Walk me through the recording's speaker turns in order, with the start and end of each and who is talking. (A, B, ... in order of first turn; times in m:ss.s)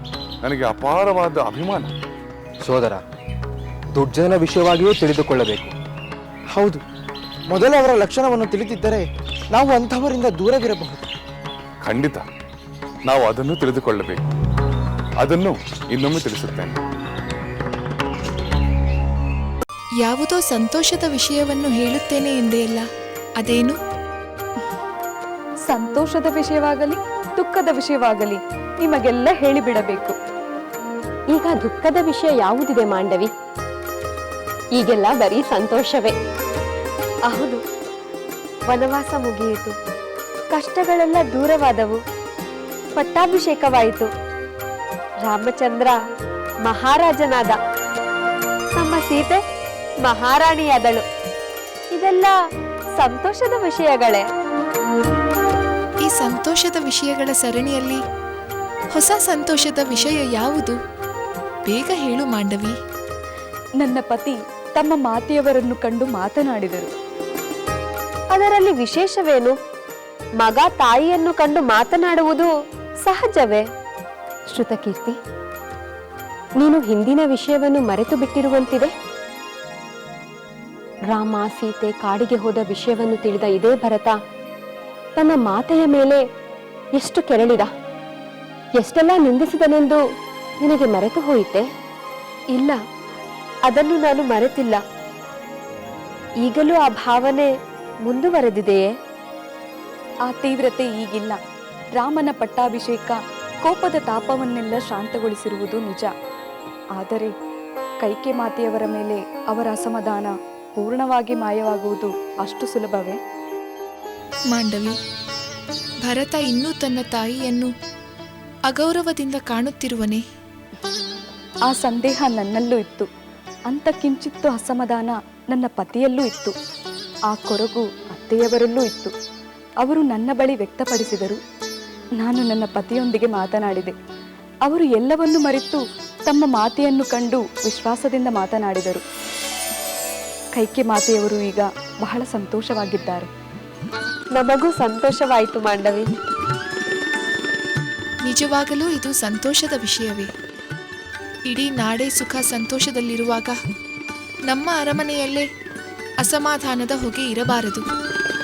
0:00.4-0:01.9 A
0:02.6-0:03.0 B
0:03.9-0:05.7 B
0:06.5-0:06.8 C
0:07.5-0:11.0 C
0:11.8-0:12.2 A
0:13.1-0:14.2 A
0:15.2-0:16.8 A
0:20.0-0:22.8 D
0:23.4-0:23.8 D
0:25.7-0:30.2 E
0:31.3-0:33.3 F
0:34.7-0:36.1 F
0:37.3-0:37.6 F
0:38.7-0:39.7 F
0:40.5-0:42.0 F
0:42.9-0:44.1 F
0:45.2-0:46.0 F
0:46.6-0:47.6 F
0:48.7-0:49.4 F
0:50.0-0:51.0 F
0:51.9-0:52.3 F
0:52.9-0:54.3 F
0:56.1-0:58.0 D
0:59.0-1:00.7 D
1:01.7-1:02.7 D
1:03.8-1:06.9 E
1:08.3-1:09.6 F
1:10.4-1:12.5 F
1:13.0-1:13.6 F
1:14.5-1:15.2 F
1:16.6-1:18.9 F
1:21.1-1:24.2 F
1:25.2-1:26.2 F
1:26.9-1:27.7 F
1:28.7-1:30.0 F
1:30.6-1:31.6 F
1:33.6-1:34.8 F
1:36.4-1:37.5 F
1:38.0-1:38.9 F
1:40.3-1:41.4 E
1:42.0-1:46.1 E
1:47.0-1:47.3 E
1:48.0-1:53.2 E
1:54.5-1:54.9 D
1:56.0-1:57.7 D
1:58.7-2:00.2 D
2:01.7-2:03.1 E
2:03.7-2:06.5 E
2:07.3-2:09.1 E
2:09.8-2:11.4 E
2:12.2-2:13.9 E
2:14.6-2:19.0 E
2:20.5-2:23.3 E
2:24.3-2:26.1 F
2:28.2-2:30.3 D
2:31.5-2:33.5 D
2:34.5-2:35.4 D
2:36.2-2:37.8 D